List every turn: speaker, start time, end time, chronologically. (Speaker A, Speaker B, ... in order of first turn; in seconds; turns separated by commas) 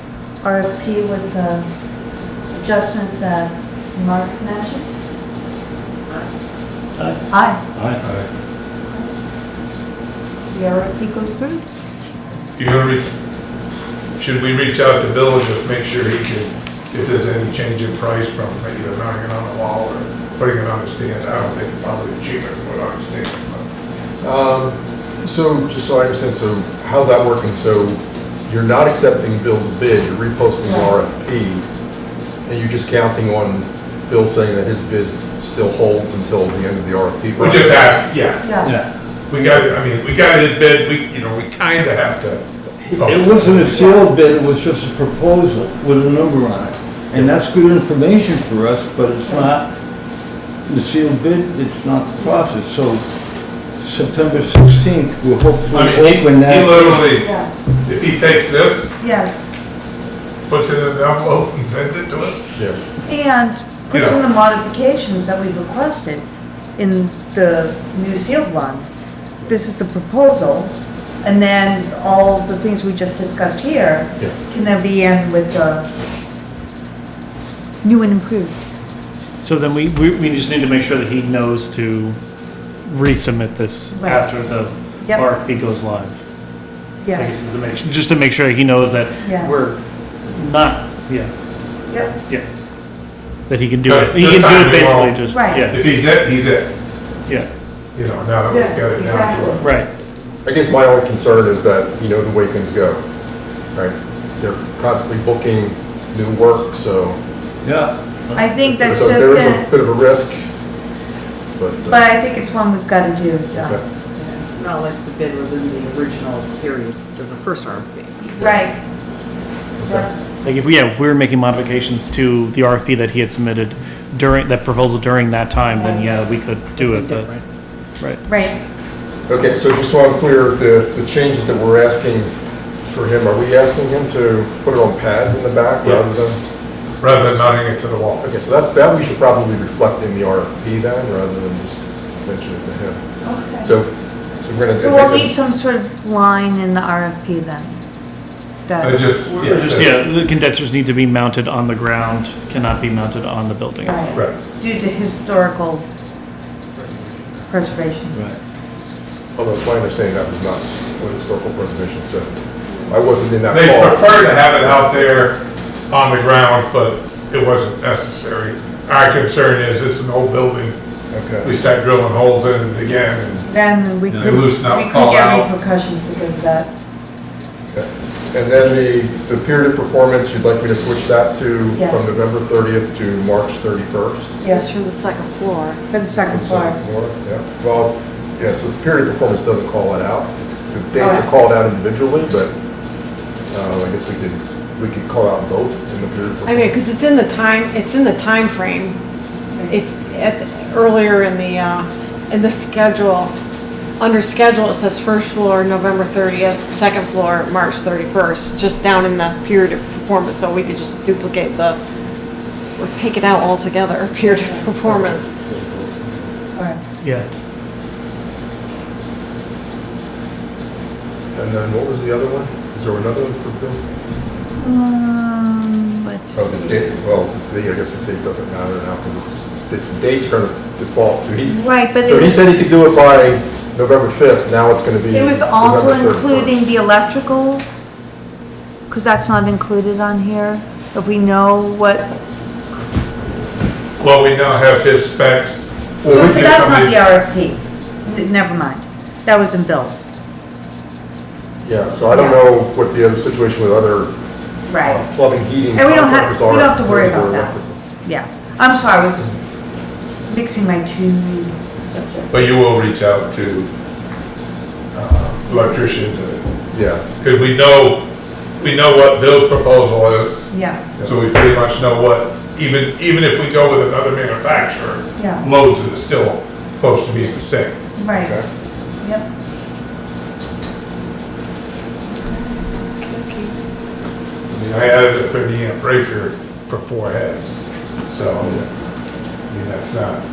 Speaker A: 0.4-1.7, Speaker A: 2.5-5.0, Speaker A: 7.3-7.6, Speaker B: 7.7-8.0, Speaker C: 8.0-8.3, Speaker A: 10.5-11.7, Speaker C: 12.6-13.1, Speaker C: 13.7-23.6, Speaker D: 24.2-31.7, Speaker A: 30.6-30.9, Speaker D: 32.5-37.8, Speaker C: 37.4-38.5, Speaker A: 38.4-38.8, Speaker B: 38.6-38.9, Speaker C: 39.3-42.5, Speaker B: 42.8-49.7, Speaker C: 43.0-43.8, Speaker A: 43.7-44.0, Speaker B: 50.6-53.1, Speaker B: 53.8-57.1, Speaker C: 55.7-57.3, Speaker A: 57.2-57.6, Speaker C: 57.8-59.0, Speaker A: 59.0-59.4, Speaker C: 60.5-62.5, Speaker A: 63.0-66.3, Speaker C: 63.9-64.2, Speaker A: 66.8-68.9, Speaker A: 69.5-75.9, Speaker A: 77.8-78.6, Speaker E: 79.4-82.2, Speaker E: 82.8-86.2, Speaker A: 83.9-84.3, Speaker A: 85.0-85.3, Speaker A: 87.0-87.4, Speaker E: 87.1-91.3, Speaker A: 89.2-89.7, Speaker A: 91.9-92.2, Speaker E: 93.5-95.9, Speaker C: 93.8-96.7, Speaker A: 95.3-95.7, Speaker C: 98.0-99.7, Speaker A: 98.5-99.7, Speaker E: 99.6-99.9, Speaker D: 100.5-103.0, Speaker D: 103.7-107.2, Speaker B: 107.6-108.6, Speaker A: 108.3-109.7, Speaker D: 108.7-110.5, Speaker D: 111.6-112.0, Speaker A: 111.8-113.8, Speaker D: 113.5-113.8, Speaker F: 114.2-118.2, Speaker A: 118.3-118.8, Speaker D: 119.8-120.1, Speaker A: 119.8-120.2, Speaker E: 120.4-127.3, Speaker A: 125.8-126.0, Speaker F: 126.8-127.4, Speaker A: 128.3-128.6, Speaker D: 129.3-132.3, Speaker D: 132.9-136.4, Speaker C: 137.0-138.2, Speaker D: 138.2-143.0, Speaker A: 143.2-143.7, Speaker D: 143.6-145.3, Speaker A: 144.8-147.8, Speaker A: 148.7-149.3, Speaker C: 148.8-150.0, Speaker E: 149.3-154.2, Speaker A: 153.8-155.9, Speaker A: 157.5-158.2, Speaker D: 159.4-162.4, Speaker D: 162.9-164.8, Speaker C: 163.5-170.8, Speaker D: 171.1-171.5, Speaker C: 171.4-173.4, Speaker A: 173.5-176.7, Speaker C: 174.2-175.5, Speaker D: 177.7-184.3, Speaker A: 181.8-182.1, Speaker A: 184.4-184.7, Speaker G: 184.4-185.8, Speaker A: 185.9-186.8, Speaker D: 186.2-192.5, Speaker A: 191.0-191.3, Speaker D: 193.5-196.8, Speaker G: 196.5-199.0, Speaker A: 199.5-199.8, Speaker G: 199.7-203.3, Speaker G: 204.0-211.8, Speaker G: 212.8-215.4, Speaker B: 215.0-216.2, Speaker A: 216.6-216.8, Speaker E: 217.0-217.3, Speaker D: 221.3-223.8, Speaker A: 224.6-227.3, Speaker D: 226.3-236.6, Speaker A: 231.5-232.5, Speaker A: 235.1-237.7, Speaker A: 238.9-242.1, Speaker C: 244.0-247.0, Speaker A: 246.1-250.1, Speaker D: 251.6-254.1, Speaker A: 252.1-252.4, Speaker A: 254.7-255.0, Speaker D: 254.8-257.8, Speaker A: 255.7-259.4, Speaker A: 260.3-262.4, Speaker C: 262.3-263.7, Speaker C: 264.9-266.5, Speaker A: 265.5-265.8, Speaker D: 266.7-267.0, Speaker C: 267.2-268.0, Speaker C: 268.6-277.8, Speaker A: 270.5-270.8, Speaker A: 275.2-275.5, Speaker A: 278.0-278.4, Speaker D: 278.2-278.4, Speaker A: 279.0-279.3, Speaker C: 284.5-288.7, Speaker D: 288.4-288.7, Speaker C: 289.5-290.2